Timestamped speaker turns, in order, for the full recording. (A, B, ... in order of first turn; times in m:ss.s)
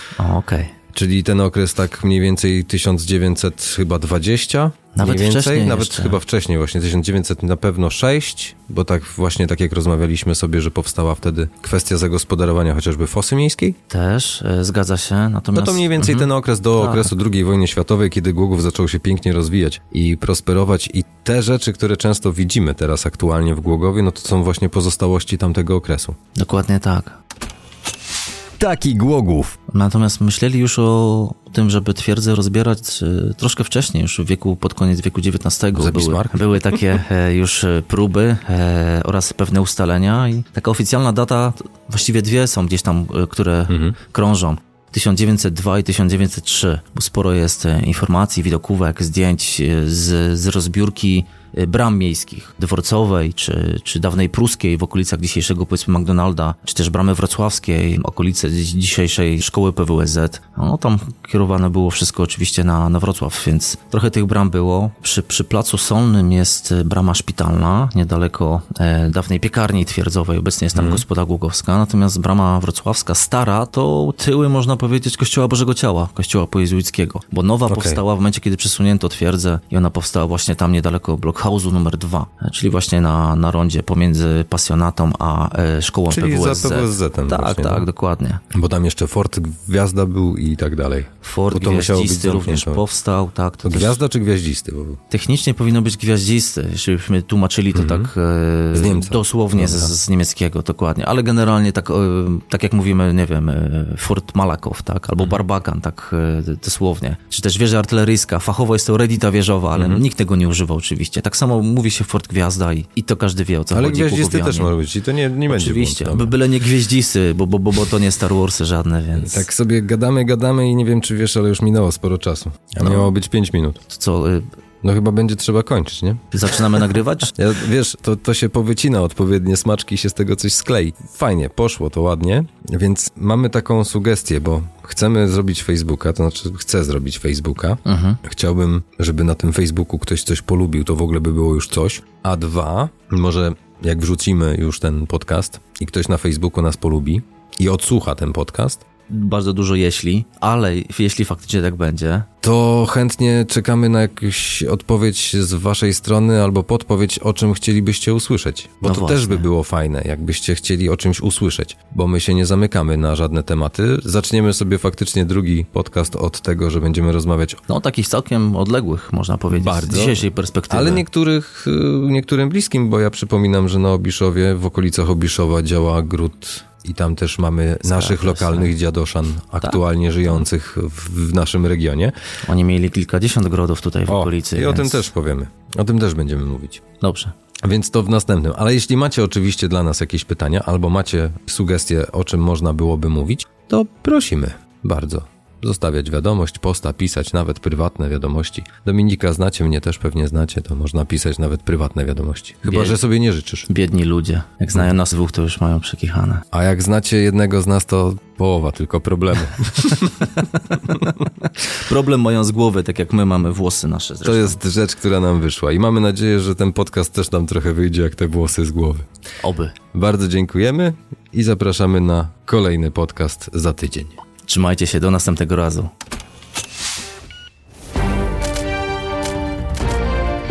0:00.2-0:00.7 A
0:00.9-0:13.8 B
0:05.0-0:06.2 A
0:13.9-0:17.1 A
0:15.6-0:26.2 B
0:26.4-0:27.2 A
0:28.6-0:29.6 B
0:29.7-1:28.4 A
0:35.7-0:36.5 B
0:43.7-0:44.0 B
1:10.8-1:11.0 B
1:17.7-1:18.0 B
1:26.1-1:27.9 B
1:28.5-1:32.8 B
1:31.2-1:34.0 A
1:33.6-1:35.0 B
1:35.1-1:54.7 A
1:37.7-1:38.1 B
1:38.7-1:39.9 B
1:49.7-1:50.0 B
1:53.7-1:56.3 B
1:55.5-1:59.5 A
1:59.2-2:03.8 B
2:02.8-2:03.1 A
2:03.9-2:04.5 A
2:04.8-2:06.2 B
2:06.3-2:07.3 A
2:07.3-2:28.8 B
2:17.8-2:18.2 A
2:29.1-2:32.3 A
2:32.4-2:47.6 B
2:38.8-2:39.5 A
2:47.7-2:51.0 A
2:49.5-3:02.2 B
2:57.8-2:58.7 A
2:59.6-3:00.4 A
3:02.4-3:05.1 A
3:04.1-3:06.8 B
3:07.0-3:07.3 A
3:07.6-3:23.7 B
3:22.6-3:23.0 A
3:23.7-3:26.4 A
3:26.5-3:30.4 B
3:31.5-3:34.6 A
3:34.2-3:39.1 B
3:39.4-3:39.8 A
3:39.9-3:44.2 B
3:44.5-3:45.9 A